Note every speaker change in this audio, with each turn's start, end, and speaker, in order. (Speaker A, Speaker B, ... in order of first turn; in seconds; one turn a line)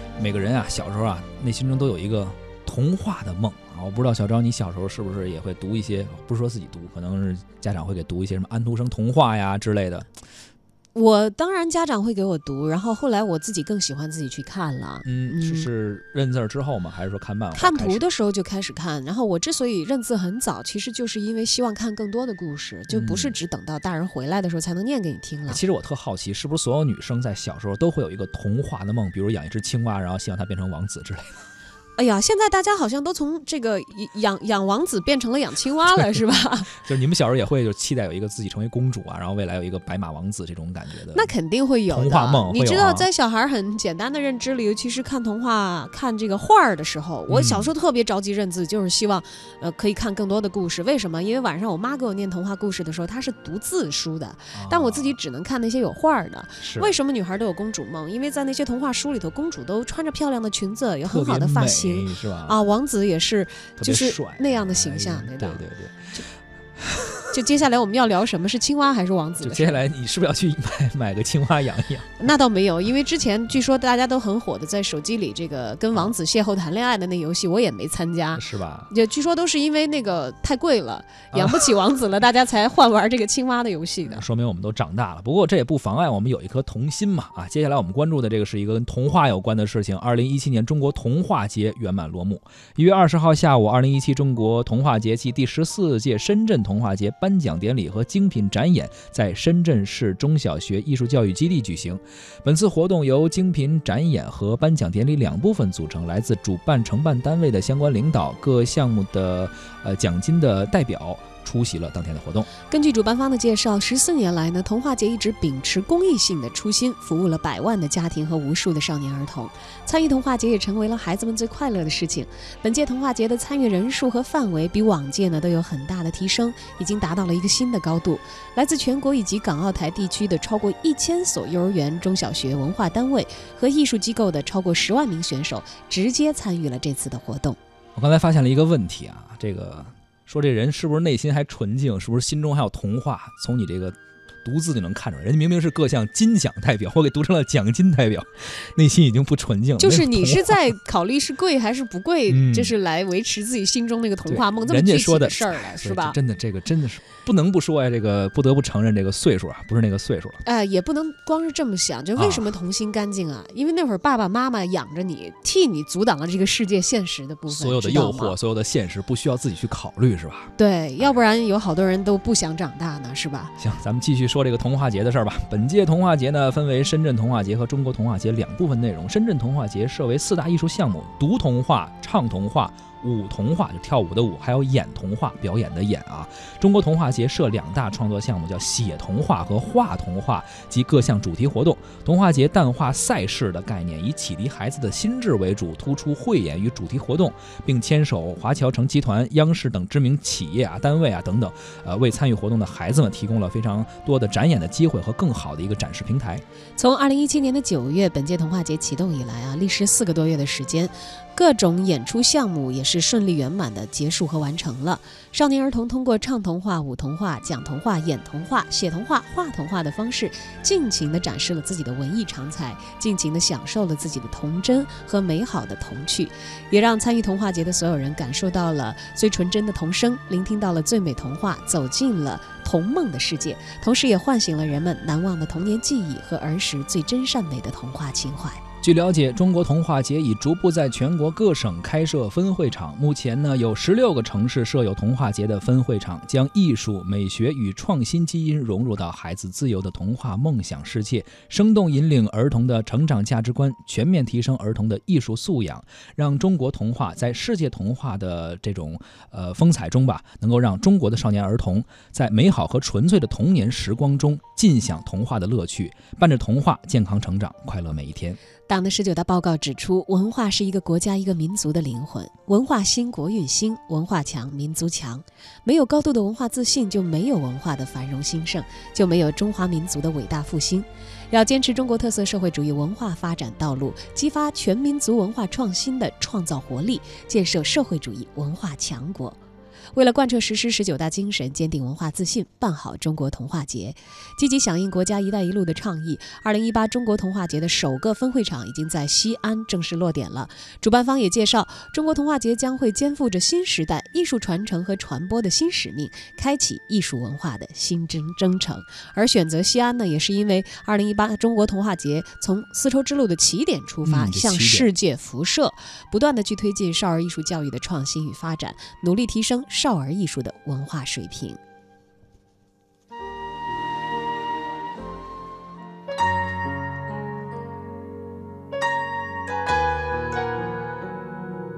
Speaker A: 0.2-10.1
Speaker B: 10.9-15.7
Speaker A: 15.0-18.0
Speaker B: 17.6-25.6
Speaker A: 22.9-23.3
Speaker A: 25.5-31.3
Speaker B: 31.9-36.7
Speaker A: 36.7-41.3
Speaker B: 41.1-66.2
Speaker A: 41.9-43.1
Speaker A: 47.3-47.7
Speaker A: 54.5-55.1
Speaker A: 56.6-57.0
Speaker A: 61.0-62.6
Speaker A: 63.8-66.1
Speaker A: 66.8-67.4
Speaker B: 67.3-69.8
Speaker A: 69.4-72.2
Speaker B: 72.2-84.2
Speaker A: 78.3-78.9
Speaker A: 81.3-81.7
Speaker A: 84.0-112.5
Speaker B: 112.7-137.6
Speaker A: 137.9-150.7
Speaker B: 149.8-156.2
Speaker A: 152.3-152.8
Speaker A: 154.3-160.4
Speaker B: 160.4-168.3
Speaker A: 162.2-162.5
Speaker A: 167.5-170.5
Speaker B: 170.6-173.5
Speaker A: 173.6-206.4
Speaker B: 206.8-238.6
Speaker A: 238.8-268.4
Speaker B: 268.7-289.4
Speaker B: 289.9-321.6
Speaker A: 314.0-314.9